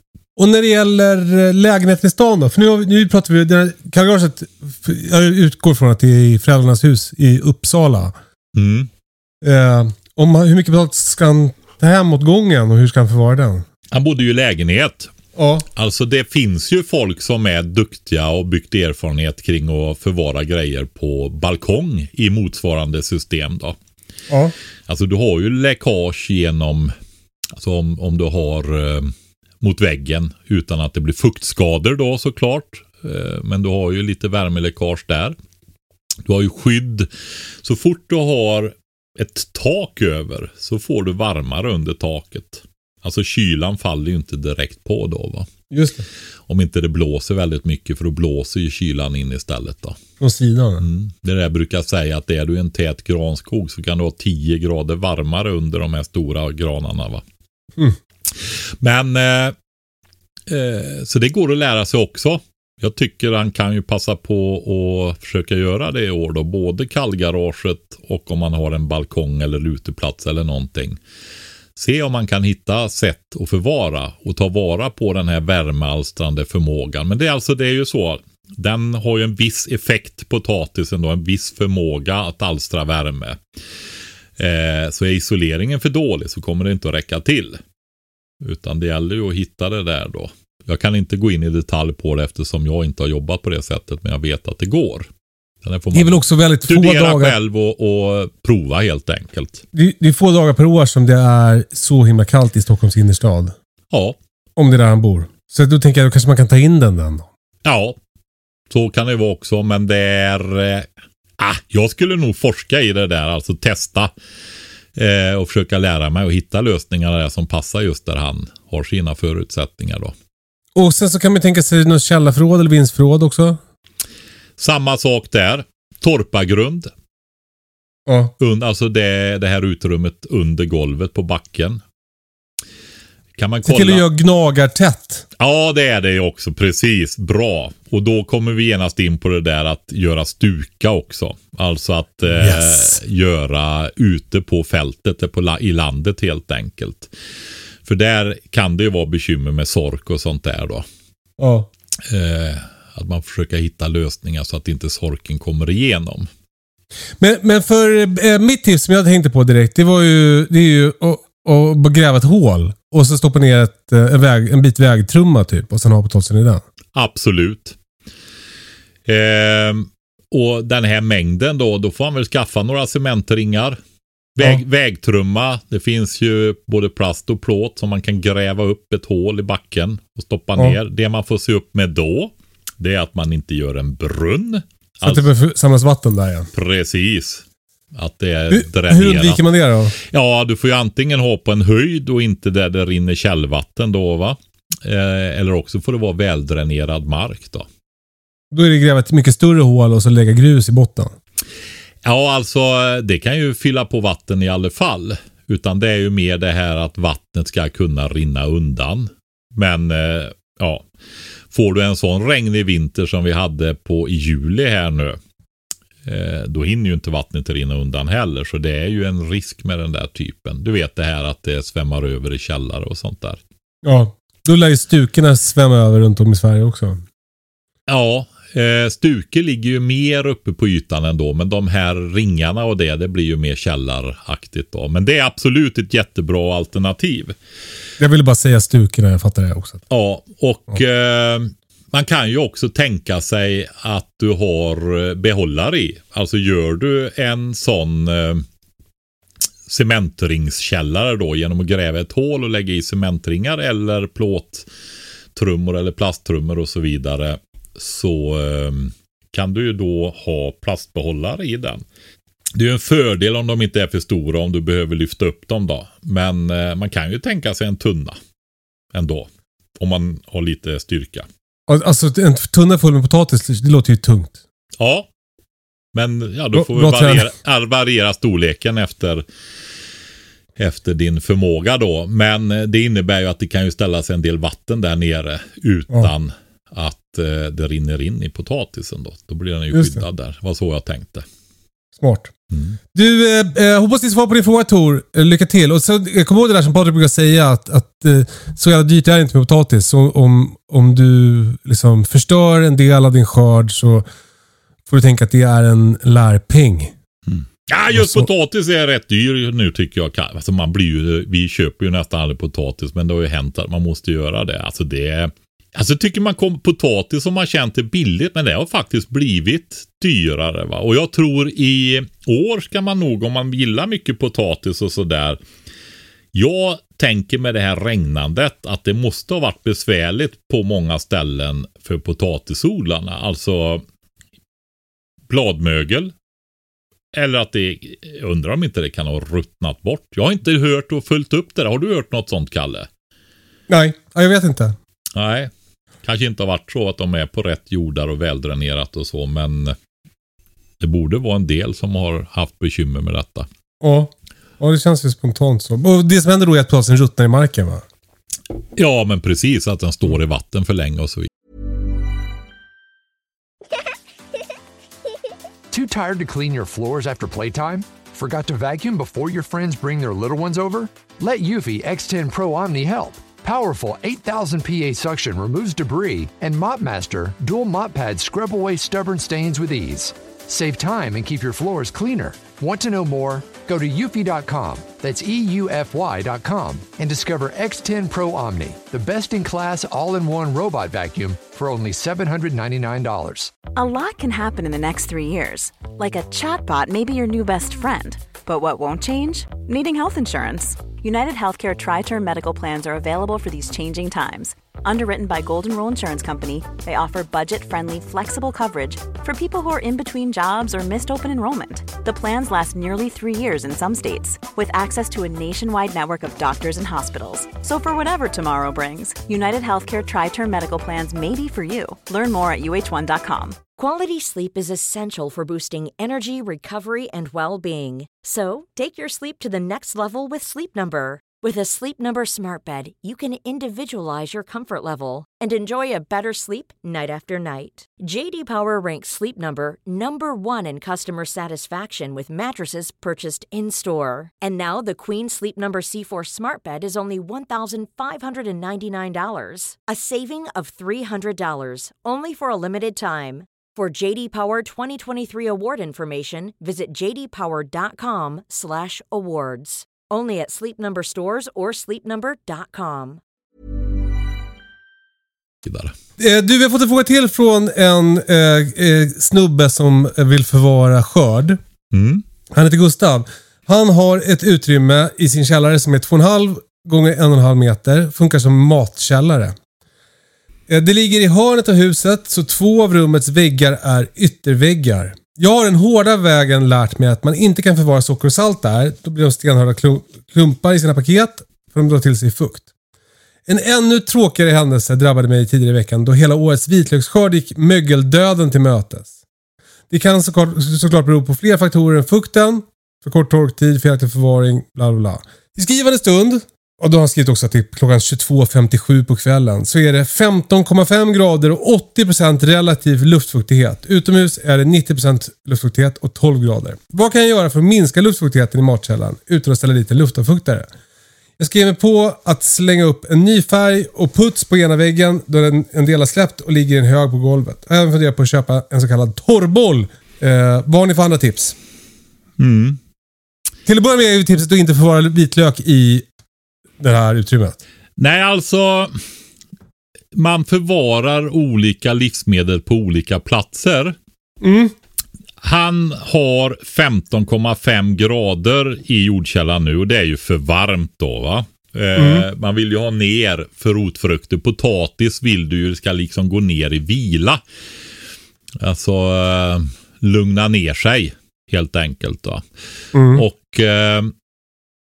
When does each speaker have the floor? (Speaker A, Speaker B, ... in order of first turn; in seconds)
Speaker A: 0.4-8.1, 9.4-13.6, 15.3-15.7, 45.7-46.0, 50.2-50.9, 95.9-97.3, 99.7-103.5, 104.6-107.3, 120.7-123.6, 128.1-128.3, 133.6-135.2, 142.3-143.0, 151.4-151.7, 157.2-166.6, 185.0-186.5, 188.5-189.9, 198.5-201.1, 223.8-227.0, 238.0-239.8, 271.7-274.4, 276.5-277.3, 289.7-290.0, 292.0-292.3, 292.9-304.1, 304.9-306.9, 307.9-308.3, 343.7-344.8, 353.8-357.8, 466.2-471.6, 472.5-479.6, 480.7-492.6, 493.5-499.1, 499.9-520.7, 521.4-531.5, 533.6-536.0, 536.8-537.6, 544.4-544.7, 552.0-552.2, 562.9-563.2
Speaker B: 8.5-8.9, 13.9-15.1, 15.7-23.8, 24.9-26.9, 27.5-35.4, 36.2-37.1, 37.6-45.5, 46.5-50.0, 50.8-57.2, 58.4-59.5, 60.5-71.0, 71.8-83.4, 84.4-87.6, 88.4-95.1, 95.6-99.6, 103.9-104.2, 107.6-108.0, 108.7-114.1, 115.0-120.1, 124.6-126.9, 128.4-131.8, 133.3-134.0, 135.4-147.1, 147.8-150.8, 152.0-156.3, 166.9-167.8, 169.1-173.8, 174.3-185.3, 186.5-189.4, 190.0-197.7, 202.0-210.8, 211.5-215.2, 216.0-223.4, 227.9-237.3, 239.9-248.4, 249.7-254.7, 255.3-261.8, 262.5-268.2, 268.9-271.3, 274.8-275.1, 275.9-279.2, 280.6-291.3, 292.5-292.8, 307.3-325.4, 326.3-333.8, 335.3-336.1, 337.1-342.9, 345.1-345.5, 346.0-349.8, 350.8-353.5, 358.8-361.3, 465.6-465.9, 471.9-472.2, 532.4-532.8, 538.0-539.0, 540.1-544.0, 545.4-557.4, 558.6-562.4, 563.1-564.1
Speaker C: 365.7-393.5
Speaker D: 393.7-423.6
Speaker E: 423.8-463.2